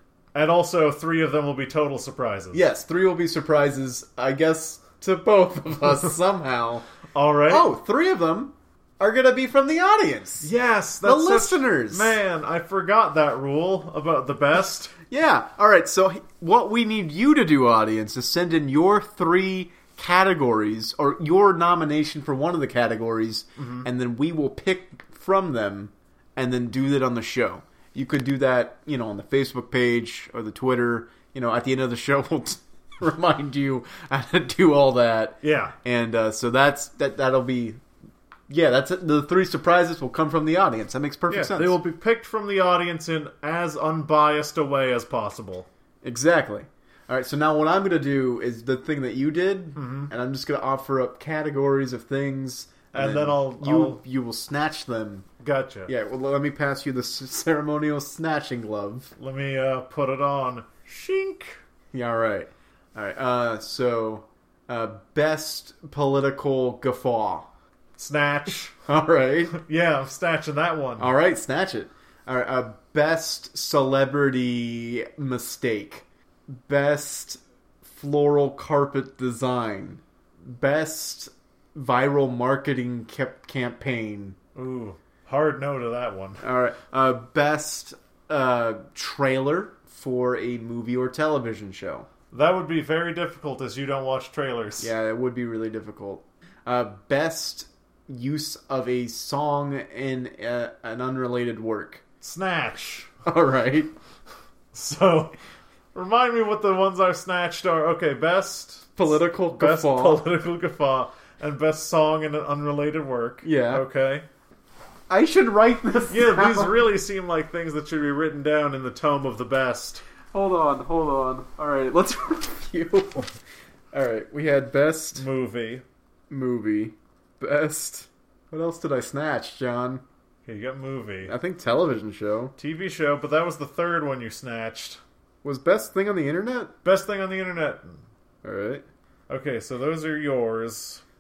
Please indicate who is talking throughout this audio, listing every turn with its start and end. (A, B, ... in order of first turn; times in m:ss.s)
0:00.3-0:02.6 A
0:02.5-0:06.9 B
0:07.1-0:07.7 A
0:07.5-0:10.5 B
0:10.4-0:14.9 A
0:11.0-0:12.2 B
0:15.1-0:37.8 B
0:23.6-0:23.9 A
0:35.4-0:35.7 A
0:38.5-0:41.8 B
0:41.3-0:45.7 A
0:46.0-0:55.3 B
0:49.8-0:50.1 A
0:52.9-0:54.0 A
0:55.4-0:55.9 A
0:55.9-0:59.1 B
0:59.2-1:01.6 A
1:01.9-1:07.5 B
1:08.0-1:08.7 A
1:08.9-1:09.6 B
1:09.5-1:11.1 A
1:11.0-1:24.4 B
1:24.6-1:26.4 A
1:26.4-1:32.1 B
1:32.3-1:34.9 A
1:34.8-1:42.0 B
1:42.2-1:43.1 A
1:43.2-1:43.9 B
1:44.7-1:45.4 A
1:46.0-1:54.2 A
1:49.0-1:50.2 B
1:53.4-1:53.8 B
1:55.1-1:56.8 B
1:56.1-2:00.0 A
2:00.3-2:03.3 B
2:03.9-2:05.3 B
2:05.2-2:05.8 A
2:06.3-2:10.0 B
2:10.5-2:11.3 A
2:11.2-2:12.5 B
2:12.6-2:15.0 A
2:15.4-2:16.7 B
2:16.8-2:18.0 A
2:18.4-2:18.8 B
2:19.3-2:21.0 A